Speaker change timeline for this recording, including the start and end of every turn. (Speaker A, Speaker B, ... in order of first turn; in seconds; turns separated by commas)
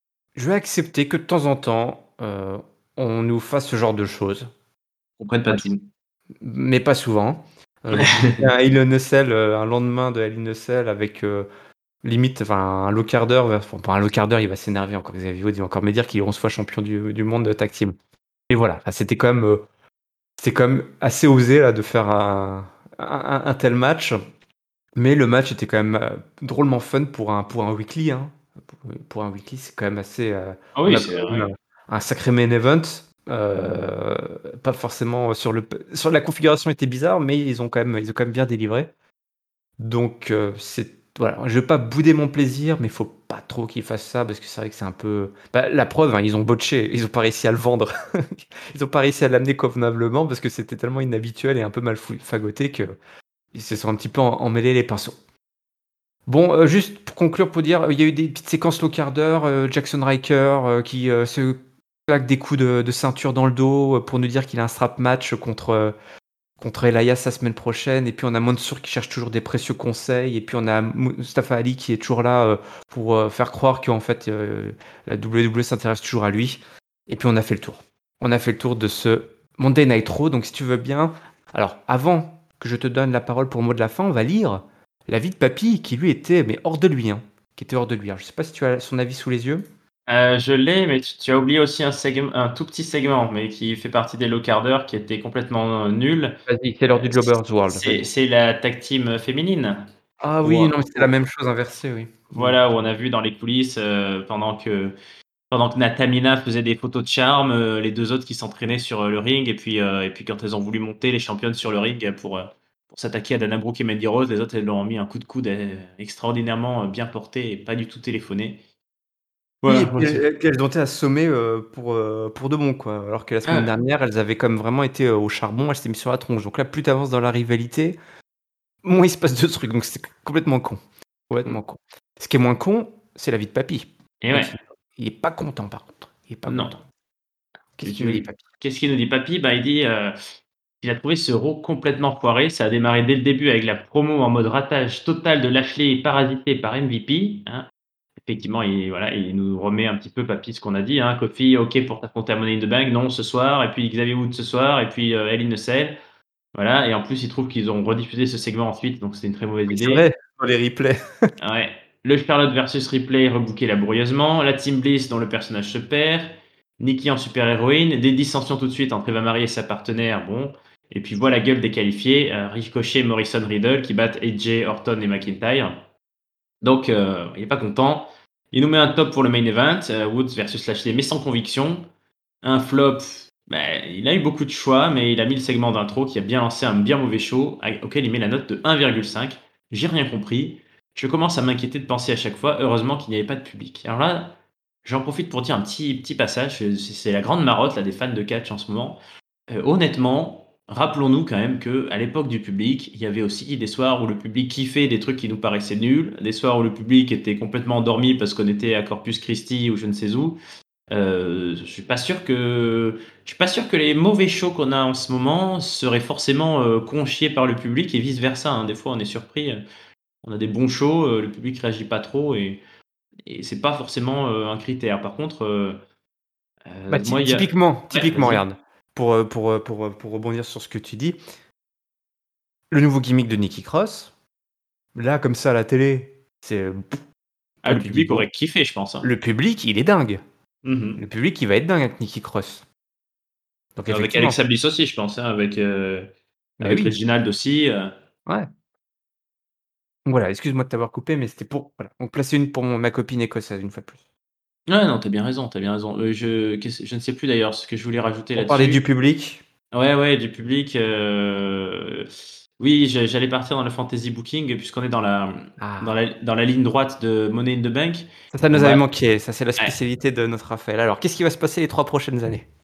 Speaker A: 0.3-4.5, Speaker B: 5.2-5.8, Speaker A: 6.4-11.5, Speaker B: 7.9-8.4, Speaker A: 12.0-17.9, Speaker A: 18.5-19.6, Speaker A: 20.4-24.2, Speaker A: 25.0-38.9, Speaker B: 30.8-31.5, Speaker A: 39.8-53.0, Speaker A: 53.5-55.2, Speaker A: 56.3-65.9, Speaker A: 66.6-89.6, Speaker B: 90.1-96.4, Speaker A: 96.5-98.0, Speaker B: 96.9-99.9, Speaker A: 100.2-102.6, Speaker B: 100.4-101.1, Speaker B: 102.3-105.0, Speaker B: 105.5-118.6, Speaker B: 119.6-120.2, Speaker A: 119.7-128.0, Speaker B: 123.5-123.7, Speaker A: 128.8-136.8, Speaker B: 134.2-134.6, Speaker B: 136.5-136.7, Speaker A: 137.8-138.4, Speaker B: 137.8-140.2, Speaker B: 140.8-147.7, Speaker B: 148.3-156.0, Speaker B: 156.6-160.1, Speaker A: 159.7-161.0, Speaker B: 161.4-175.8, Speaker B: 176.6-181.9, Speaker B: 182.4-199.0, Speaker B: 199.5-210.4, Speaker B: 210.9-219.6, Speaker B: 220.2-222.6, Speaker B: 223.3-225.8, Speaker B: 226.7-228.4, Speaker A: 226.9-231.2, Speaker A: 232.7-234.1, Speaker A: 234.9-237.0, Speaker B: 237.6-239.1, Speaker A: 237.7-238.3, Speaker A: 239.0-240.2, Speaker B: 240.6-241.0, Speaker A: 241.0-242.6, Speaker A: 243.8-244.4, Speaker B: 243.9-246.1, Speaker A: 246.6-246.9, Speaker B: 246.6-247.9, Speaker A: 250.1-254.0, Speaker B: 254.7-258.8, Speaker A: 258.4-259.4, Speaker B: 259.7-262.1, Speaker B: 262.6-268.8, Speaker A: 265.6-265.9, Speaker A: 268.3-272.4